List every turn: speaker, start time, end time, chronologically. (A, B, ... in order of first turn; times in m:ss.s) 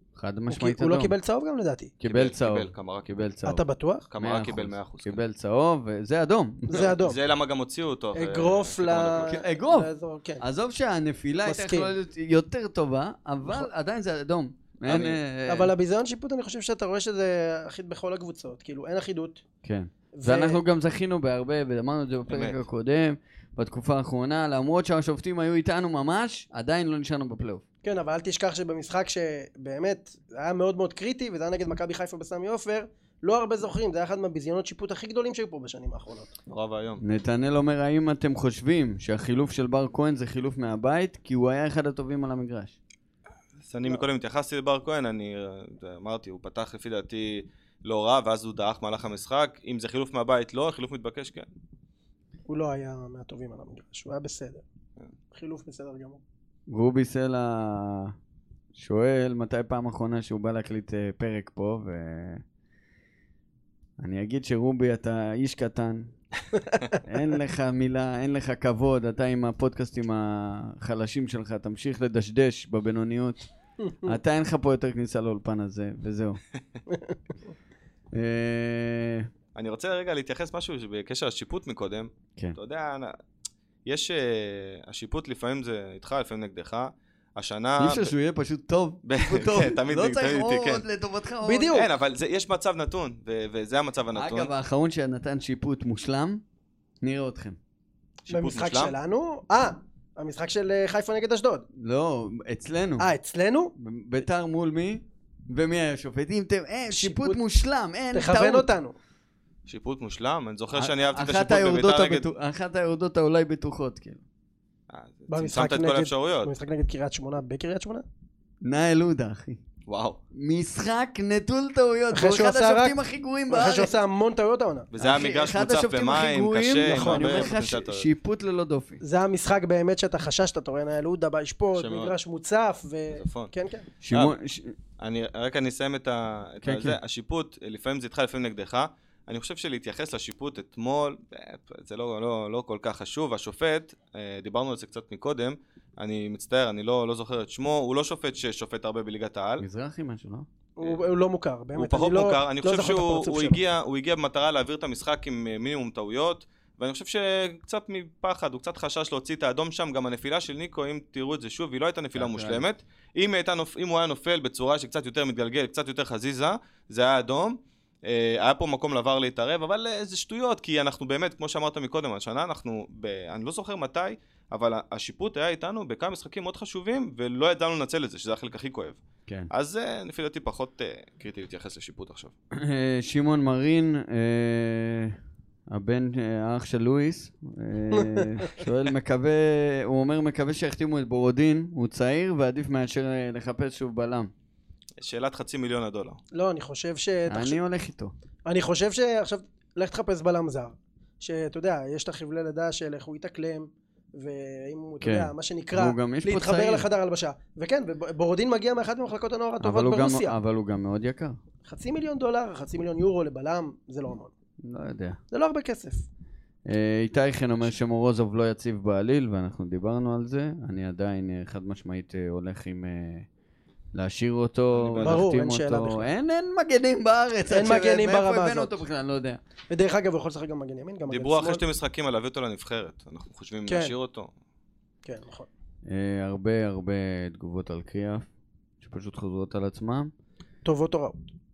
0:00.2-0:01.1 A
0:00.5-0:01.9 B
0:02.0-0:03.6 A
0:02.0-0:03.2 C
0:03.4-0:04.1 B
0:04.1-0:05.2 C
0:04.2-0:06.9 A
0:06.7-0:07.2 B
0:06.8-0:09.4 C
0:08.1-0:10.4 B
0:09.2-0:09.9 A
0:10.4-0:15.7 A
0:11.4-0:11.9 B
0:14.8-0:15.2 C
0:15.5-0:19.4 B
0:19.6-0:27.6 A
0:20.1-0:20.6 B
0:22.3-0:22.6 C
0:27.8-0:36.4 B
0:36.5-0:37.0 C
0:37.0-0:42.8 A
0:43.6-0:51.5 C
0:52.5-0:54.6 B
0:55.3-0:56.2 B
0:56.7-0:58.1 A
0:58.7-1:02.4 A
1:04.0-1:06.1 A
1:07.0-1:13.5 A
1:13.8-1:14.2 B
1:14.0-1:16.4 A
1:16.9-1:17.2 B
1:18.1-1:19.3 A
1:19.5-1:23.2 C
1:23.8-1:28.1 C
1:27.8-1:31.7 A
1:29.0-1:30.8 C
1:31.4-1:31.9 B
1:31.7-1:34.5 C
1:34.1-1:36.4 A
1:37.0-1:37.6 A
1:38.2-1:38.9 C
1:38.3-1:41.6 B
1:41.8-1:43.1 A
1:43.0-1:43.7 B
1:43.8-1:48.7 A
1:46.9-1:47.4 B
1:48.1-1:48.9 B
1:49.6-1:52.3 C
1:50.7-1:54.2 A
1:54.9-1:56.5 C
1:55.3-1:58.0 B
1:58.6-1:59.6 A
1:59.8-2:00.2 C
2:00.3-2:03.9 A
2:02.1-2:03.0 B
2:03.5-2:04.9 B
2:04.9-2:08.1 C
2:05.0-2:09.0 A
2:06.8-2:07.6 B
2:09.0-2:13.9 B
2:11.7-2:12.1 C
2:13.1-2:13.5 C
2:14.0-2:14.8 A
2:15.0-2:29.6 C
2:16.6-2:17.0 A
2:29.6-2:30.5 A
2:30.8-2:33.6 B
2:31.8-3:02.3 C
2:42.1-2:42.6 A
3:02.5-3:05.2 A
3:05.7-3:14.3 A
3:07.9-3:08.6 B
3:15.0-3:16.2 C
3:16.3-3:17.6 B
3:17.3-3:18.1 A
3:18.4-3:30.3 B
3:25.0-3:26.9 A
3:29.6-3:31.4 A
3:31.6-3:34.3 B
3:34.6-3:35.2 A
3:35.3-3:36.0 B
3:36.6-3:43.3 A
3:43.9-3:49.4 A
3:44.7-3:45.2 C
3:45.0-3:46.1 B
3:47.5-3:48.8 B
3:49.7-3:51.6 B
3:51.1-3:54.3 C
3:53.6-3:53.9 B
3:55.0-3:55.5 B
3:55.8-3:58.2 A
3:58.8-4:00.1 A
4:00.6-4:01.2 B